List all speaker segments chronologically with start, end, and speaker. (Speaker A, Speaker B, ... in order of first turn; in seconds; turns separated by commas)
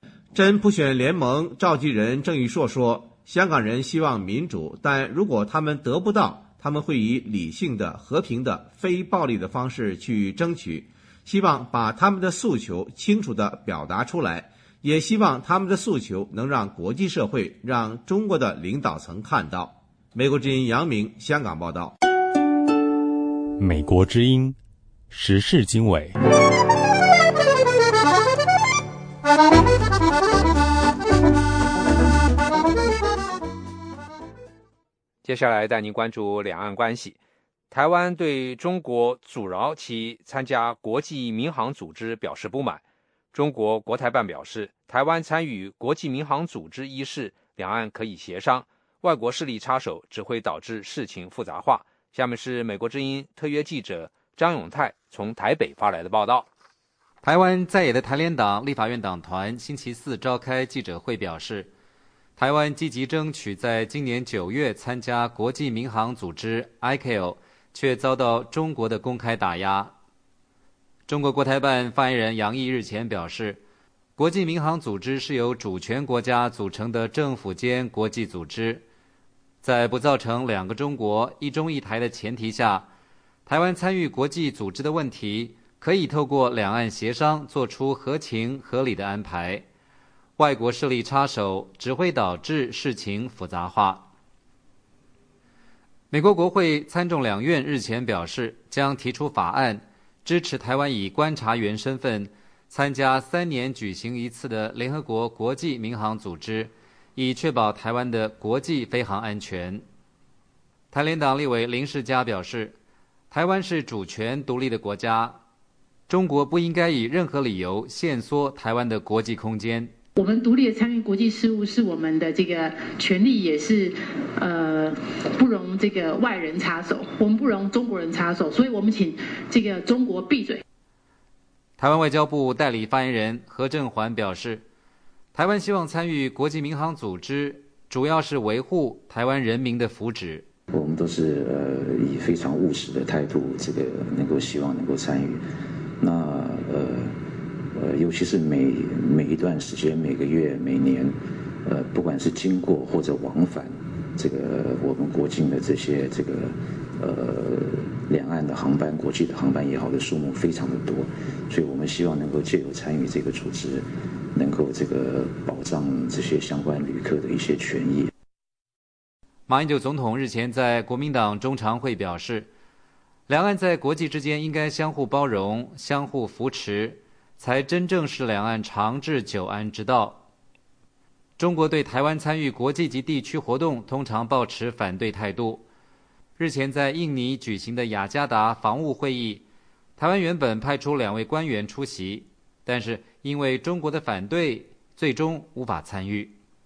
Speaker A: 0.3-21.9, Speaker B: 23.6-24.6, Speaker B: 25.1-26.1, Speaker C: 35.2-37.2, Speaker C: 37.7-42.8, Speaker C: 43.3-56.5, Speaker D: 57.2-61.7, Speaker D: 62.4-69.9, Speaker D: 71.1-73.6, Speaker D: 74.2-78.8, Speaker D: 79.6-82.9, Speaker D: 83.5-89.6, Speaker D: 90.4-94.1, Speaker D: 96.1-109.8, Speaker D: 110.9-112.8, Speaker D: 113.3-115.4, Speaker D: 116.1-119.9, Speaker E: 120.6-122.6, Speaker E: 123.5-123.8, Speaker E: 125.5-128.7, Speaker E: 129.6-130.0, Speaker D: 131.8-134.7, Speaker D: 135.3-140.5, Speaker F: 140.7-145.4, Speaker F: 146.0-147.2, Speaker F: 147.7-168.1, Speaker D: 169.5-172.5, Speaker D: 173.3-180.2, Speaker D: 181.4-185.7, Speaker D: 186.4-189.4, Speaker D: 190.0-196.4